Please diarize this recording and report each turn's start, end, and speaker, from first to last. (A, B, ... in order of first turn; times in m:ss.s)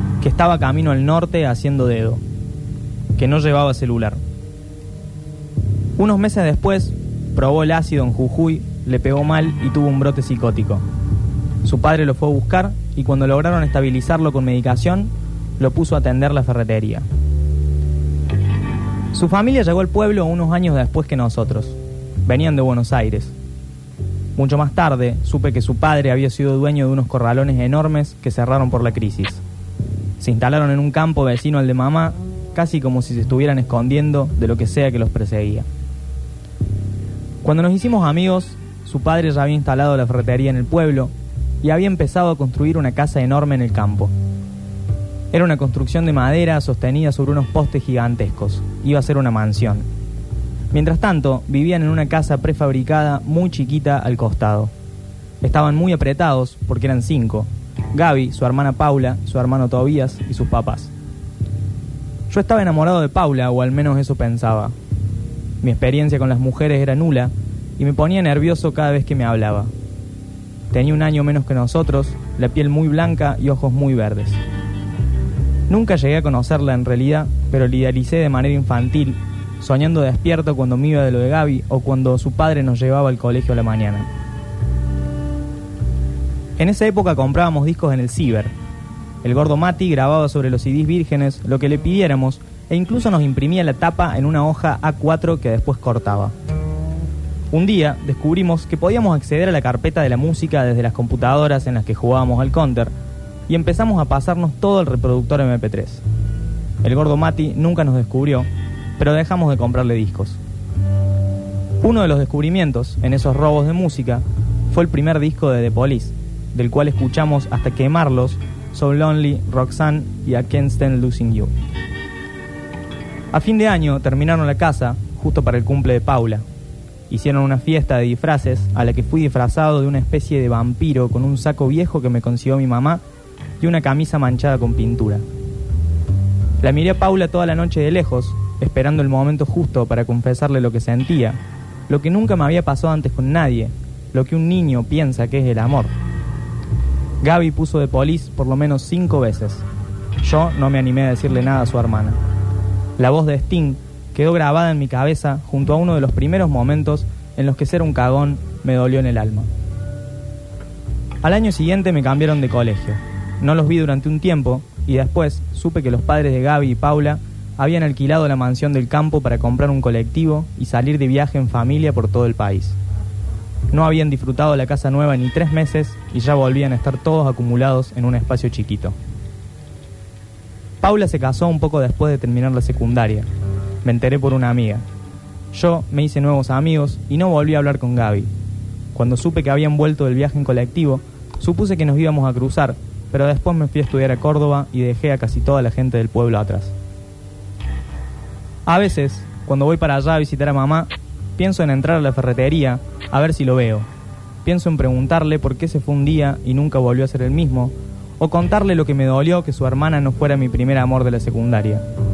0:00.2-0:02.2 A
0:03.2-0:04.2 A
0:06.0-0:10.8 A
0:11.6-0:17.0 A
0:19.1-0:23.3 A
0:24.4-0:29.4 A
0:30.2-0:35.7 A
0:37.4-0:41.1 A
0:41.6-0:44.1 A
0:45.3-0:49.8 A
0:50.7-0:54.7 A
0:55.4-1:00.9 A
1:02.3-1:04.7 A
1:05.6-1:09.7 A
1:10.7-1:14.4 A
1:15.7-1:24.1 A
1:26.6-1:28.5 A
1:29.2-1:36.3 A
1:37.5-1:42.9 A
1:43.5-1:46.0 A
1:46.8-1:48.5 A
1:49.0-1:50.4 A
1:51.8-2:01.5 A
2:03.3-2:06.4 A
2:07.1-2:13.0 A
2:13.6-2:15.2 A
2:16.6-2:21.4 A
2:21.9-2:25.9 A
2:27.2-2:29.6 A
2:30.2-2:32.2 A
2:33.0-2:39.5 A
2:41.2-2:52.8 A
2:53.7-2:58.9 A
3:00.8-3:03.3 A
3:03.8-3:04.8 A
3:05.5-3:08.3 A
3:08.9-3:16.7 A
3:18.7-3:23.9 A
3:24.4-3:31.8 A